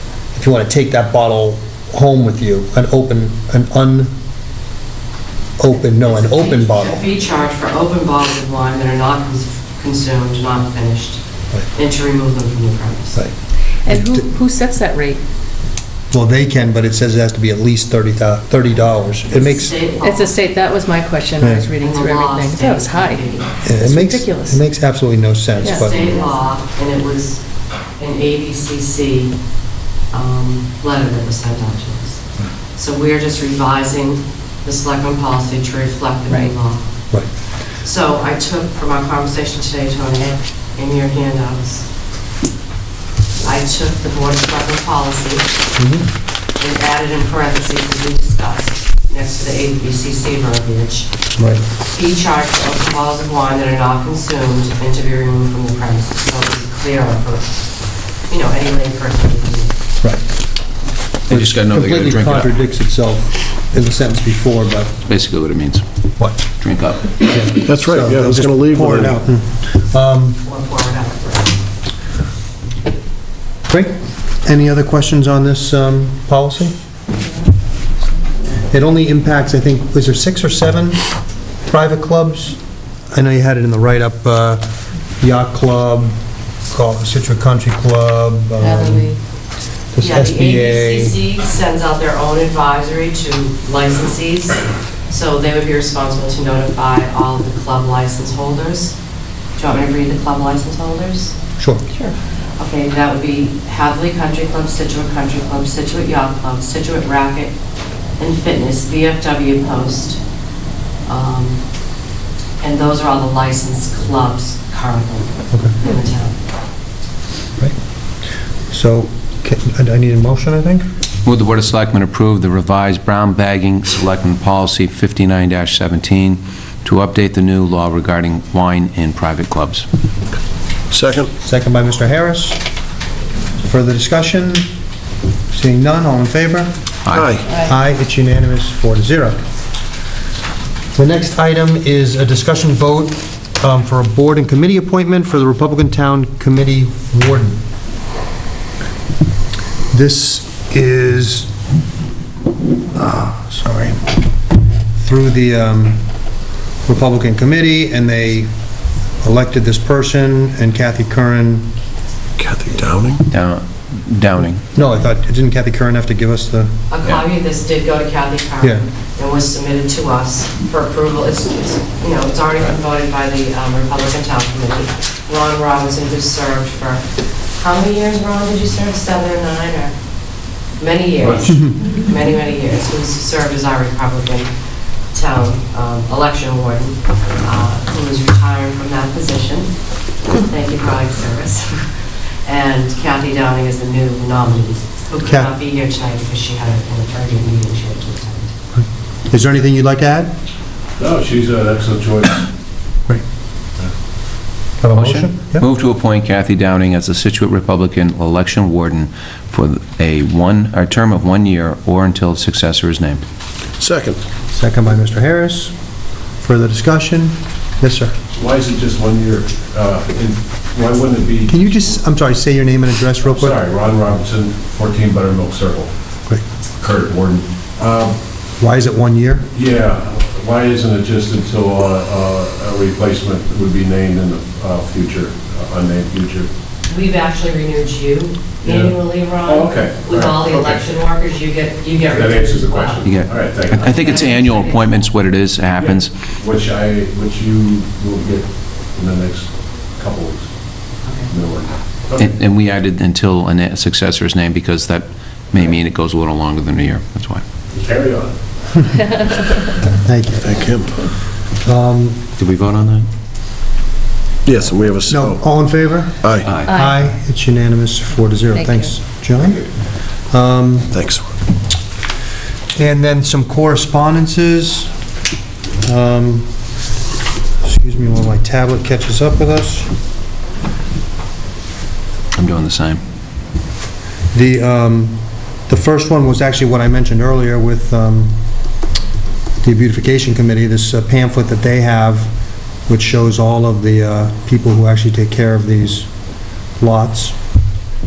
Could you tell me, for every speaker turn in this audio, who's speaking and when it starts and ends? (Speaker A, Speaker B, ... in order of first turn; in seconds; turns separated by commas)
Speaker A: 0.3-4.1, Speaker A: 5.6-7.0, Speaker B: 5.9-11.2, Speaker B: 11.7-13.2, Speaker C: 13.8-15.2, Speaker A: 13.8-14.2, Speaker A: 16.1-19.7, Speaker B: 19.3-20.3, Speaker C: 20.0-24.6, Speaker A: 21.4-21.7, Speaker B: 21.8-23.5, Speaker A: 23.6-26.0, Speaker C: 25.6-26.4, Speaker B: 25.6-27.4, Speaker B: 28.0-29.3, Speaker B: 30.1-32.2, Speaker B: 32.8-41.8, Speaker B: 43.4-45.5, Speaker A: 45.8-46.1, Speaker B: 46.6-51.1, Speaker A: 51.4-51.6, Speaker B: 51.9-57.7, Speaker B: 58.3-59.8, Speaker D: 61.3-62.5, Speaker A: 61.3-64.9, Speaker D: 65.1-65.8, Speaker A: 66.2-66.4, Speaker D: 66.6-67.1, Speaker A: 67.2-70.4, Speaker E: 67.7-68.7, Speaker F: 67.9-69.2, Speaker B: 70.4-71.5, Speaker A: 73.7-76.8, Speaker A: 78.7-81.0, Speaker A: 81.6-82.6, Speaker A: 83.1-84.7, Speaker A: 85.2-86.2, Speaker A: 86.7-89.1, Speaker C: 88.6-89.2, Speaker A: 89.9-91.2, Speaker B: 90.0-98.9, Speaker B: 99.6-101.3, Speaker A: 101.6-101.8, Speaker B: 102.6-107.5, Speaker B: 108.2-110.2, Speaker B: 111.1-111.6, Speaker B: 112.6-116.3, Speaker A: 115.5-115.8, Speaker A: 118.7-120.8, Speaker D: 121.2-129.8, Speaker F: 130.9-131.3, Speaker A: 131.4-132.6, Speaker A: 133.6-134.7, Speaker A: 135.5-136.7, Speaker D: 137.0-137.3, Speaker F: 137.1-137.4, Speaker C: 137.5-137.7, Speaker A: 137.5-139.4, Speaker A: 140.9-147.6, Speaker A: 149.9-151.5, Speaker A: 152.9-154.1, Speaker A: 155.0-156.0, Speaker A: 156.8-158.5, Speaker A: 159.2-161.7, Speaker F: 162.4-163.2, Speaker D: 163.3-164.6, Speaker A: 164.7-166.7, Speaker B: 166.9-177.0, Speaker B: 177.6-179.9, Speaker B: 180.8-184.5, Speaker B: 185.1-189.7, Speaker B: 190.2-191.7, Speaker B: 192.4-198.5, Speaker A: 198.8-200.3, Speaker F: 201.0-202.4, Speaker A: 204.8-205.7, Speaker D: 204.9-213.2, Speaker F: 213.8-214.2, Speaker A: 214.5-215.7, Speaker A: 216.4-218.1, Speaker F: 218.3-221.7, Speaker A: 221.5-223.6, Speaker F: 223.3-225.9, Speaker F: 226.8-228.2, Speaker A: 228.6-229.4, Speaker F: 229.5-236.5, Speaker B: 236.9-243.0, Speaker F: 238.6-240.9, Speaker F: 242.1-244.2, Speaker D: 243.0-246.3, Speaker B: 243.7-245.1, Speaker F: 245.8-252.3, Speaker B: 251.0-251.3, Speaker D: 252.2-257.4, Speaker F: 257.7-258.3, Speaker A: 259.9-260.6, Speaker E: 260.6-260.9, Speaker A: 261.6-262.2, Speaker D: 262.4-263.1, Speaker E: 264.4-265.2, Speaker F: 264.7-265.3, Speaker A: 265.1-269.7, Speaker E: 266.2-266.5, Speaker C: 266.6-267.0, Speaker C: 268.5-268.9, Speaker A: 270.3-270.9, Speaker A: 272.7-274.9, Speaker A: 275.8-276.5, Speaker A: 277.6-279.9, Speaker D: 282.3-283.0, Speaker A: 284.3-288.4, Speaker A: 289.6-292.3, Speaker A: 292.9-296.1, Speaker A: 296.8-297.4